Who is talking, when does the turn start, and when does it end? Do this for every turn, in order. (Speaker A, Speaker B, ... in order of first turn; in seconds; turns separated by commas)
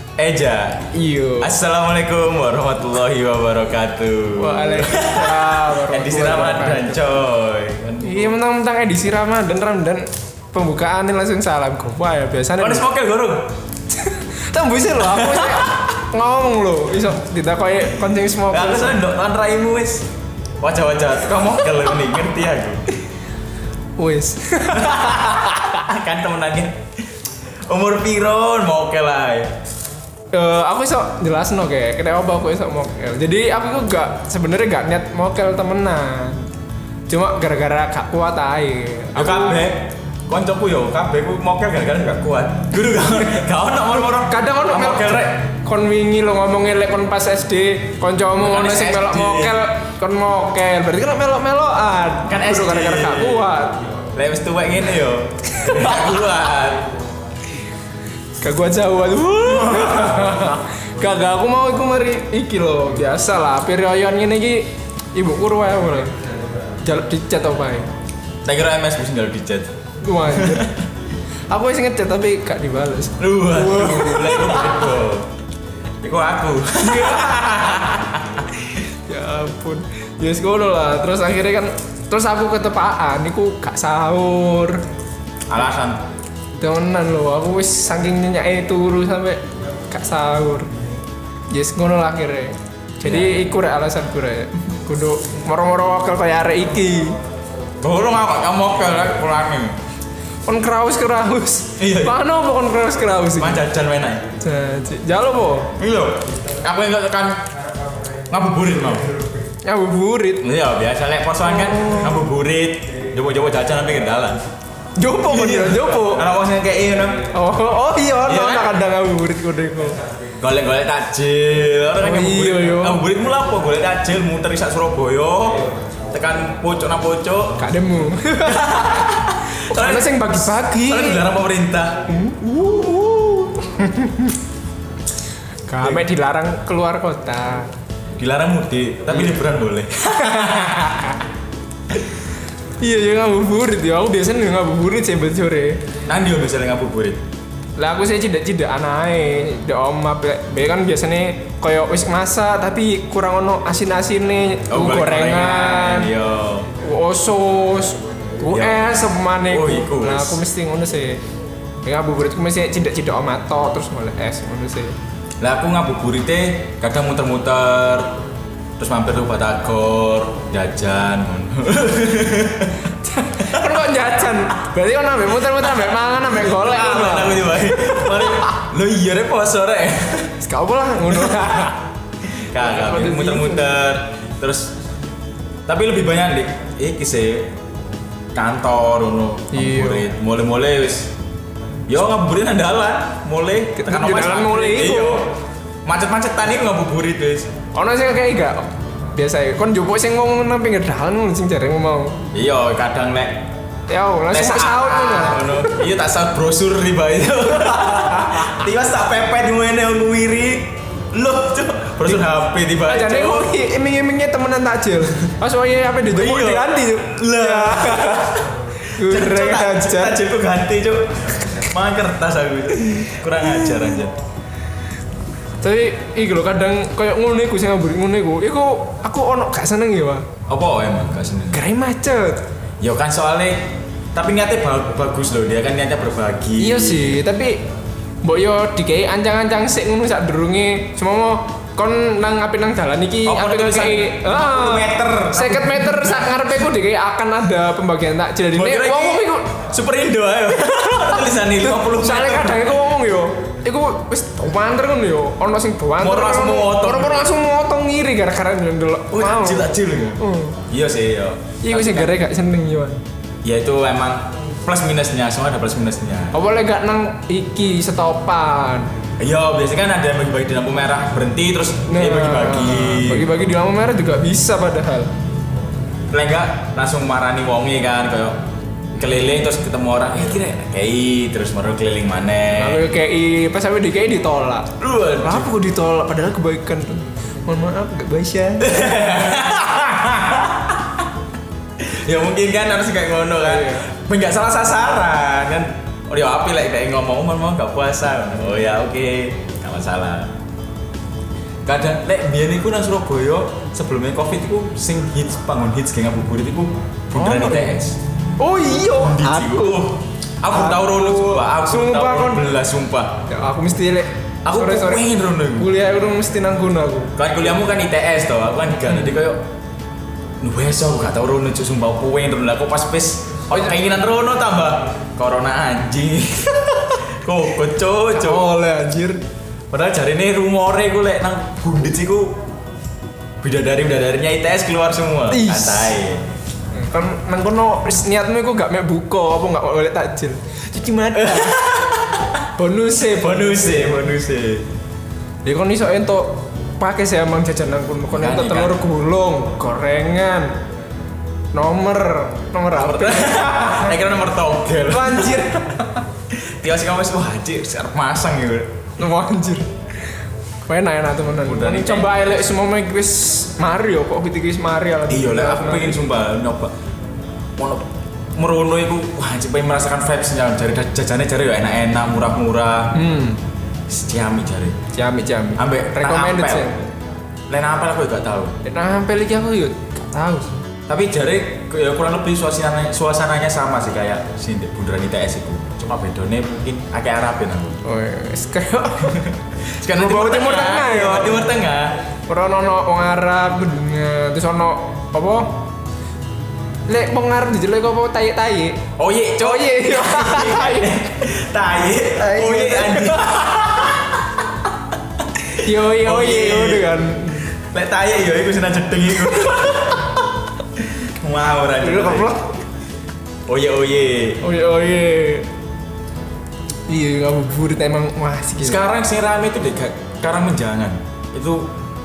Speaker A: 0.2-0.9, Speaker B: 0.9-1.5, Speaker A: 1.4-8.3, Speaker B: 4.3-7.0, Speaker B: 8.0-12.8, Speaker A: 12.6-13.5, Speaker B: 13.9-19.0, Speaker A: 15.0-15.8, Speaker A: 18.5-20.1, Speaker A: 20.6-22.8, Speaker B: 24.0-25.8, Speaker A: 24.7-26.8, Speaker A: 27.7-29.5, Speaker B: 30.3-36.4, Speaker B: 37.1-39.6, Speaker A: 39.1-45.3, Speaker B: 44.1-53.8, Speaker A: 48.4-49.6, Speaker A: 52.3-53.5, Speaker A: 54.1-56.9, Speaker B: 55.5-56.2, Speaker B: 58.4-66.1, Speaker A: 59.5-60.2, Speaker B: 66.8-67.9, Speaker A: 68.4-69.7, Speaker B: 70.0-70.7, Speaker A: 70.3-70.7, Speaker B: 71.5-74.9, Speaker A: 73.2-75.3, Speaker A: 76.0-78.4, Speaker B: 76.8-77.9, Speaker B: 78.7-84.8, Speaker A: 85.5-86.0, Speaker B: 86.6-90.7, Speaker B: 91.5-97.2, Speaker A: 93.0-93.6, Speaker A: 97.8-99.8, Speaker B: 100.5-103.7, Speaker A: 101.8-102.2, Speaker A: 103.4-104.2, Speaker B: 104.4-105.7, Speaker A: 105.8-107.4, Speaker A: 108.3-109.1, Speaker B: 109.6-110.4, Speaker A: 110.4-114.4, Speaker B: 111.5-112.2, Speaker B: 115.0-116.2, Speaker A: 115.2-117.3, Speaker B: 117.3-120.0, Speaker A: 118.2-118.8, Speaker A: 120.4-127.6, Speaker B: 122.0-123.0, Speaker B: 127.6-131.3, Speaker A: 128.4-132.0, Speaker B: 132.1-134.4, Speaker B: 135.7-137.7, Speaker A: 138.2-141.0, Speaker B: 140.1-141.1, Speaker B: 142.8-145.8, Speaker A: 146.1-147.2, Speaker B: 147.8-156.1, Speaker A: 154.7-156.7, Speaker B: 156.8-161.2, Speaker A: 158.4-160.4, Speaker B: 161.8-164.9, Speaker A: 165.4-168.1, Speaker A: 168.8-172.9, Speaker B: 173.0-178.5, Speaker A: 173.4-173.8, Speaker A: 176.3-180.3, Speaker B: 180.4-181.8, Speaker A: 182.5-184.7, Speaker B: 182.5-183.7, Speaker A: 185.7-187.5, Speaker A: 188.3-191.1, Speaker B: 189.5-190.1, Speaker A: 191.9-195.3, Speaker B: 193.7-195.2, Speaker A: 195.8-197.5, Speaker B: 197.7-202.2, Speaker A: 202.3-203.5, Speaker B: 203.9-205.8, Speaker A: 204.3-213.5, Speaker B: 207.8-208.5, Speaker B: 212.8-218.3, Speaker A: 216.1-224.1, Speaker B: 218.9-220.2, Speaker B: 223.5-223.9, Speaker B: 225.6-230.3, Speaker A: 230.5-231.6, Speaker B: 231.5-232.4, Speaker A: 232.8-237.2, Speaker B: 236.6-237.6, Speaker B: 238.2-249.5, Speaker A: 243.2-246.3, Speaker A: 248.5-252.7, Speaker B: 251.6-260.6, Speaker A: 256.0-257.3, Speaker A: 259.1-262.1, Speaker B: 261.6-263.0, Speaker A: 263.4-266.3, Speaker B: 266.3-268.9, Speaker A: 269.2-273.3, Speaker B: 271.9-275.1, Speaker A: 276.1-278.4, Speaker A: 279.0-282.8, Speaker B: 282.6-284.7, Speaker A: 284.8-285.5, Speaker B: 285.2-288.9, Speaker A: 288.6-291.1, Speaker A: 291.8-300.3, Speaker B: 293.4-293.9, Speaker A: 301.6-308.0, Speaker B: 307.1-307.8, Speaker B: 308.4-309.9, Speaker A: 309.0-313.1, Speaker B: 310.5-312.5, Speaker B: 313.3-317.1, Speaker A: 314.4-315.7, Speaker A: 317.2-319.4, Speaker B: 318.9-319.2, Speaker A: 320.4-328.4, Speaker B: 328.1-329.2, Speaker A: 329.7-332.3, Speaker A: 333.4-336.2, Speaker B: 335.3-335.9, Speaker B: 336.8-341.6, Speaker A: 341.1-342.4, Speaker B: 342.6-343.7, Speaker A: 343.0-344.6, Speaker B: 345.4-350.6, Speaker A: 348.1-348.8, Speaker B: 351.5-353.9, Speaker A: 352.7-355.5, Speaker B: 354.9-355.9, Speaker A: 356.5-358.7, Speaker B: 359.0-359.7, Speaker B: 360.6-366.0, Speaker A: 361.4-362.4, Speaker A: 365.1-366.7, Speaker A: 367.6-373.0, Speaker B: 372.9-373.4, Speaker A: 373.9-374.7, Speaker B: 374.9-376.8, Speaker A: 375.6-376.8, Speaker A: 377.5-378.5, Speaker B: 378.6-380.6, Speaker A: 380.9-387.8, Speaker B: 387.8-389.2, Speaker A: 389.0-391.9, Speaker B: 389.9-391.5, Speaker B: 392.3-395.6, Speaker B: 396.9-398.8, Speaker A: 399.0-404.4, Speaker B: 399.4-401.0, Speaker B: 402.2-403.2, Speaker B: 405.4-407.5, Speaker A: 406.0-406.9, Speaker A: 407.6-412.3, Speaker B: 411.8-412.5, Speaker A: 413.5-414.4, Speaker B: 414.4-415.5, Speaker B: 416.9-418.8, Speaker A: 418.6-421.7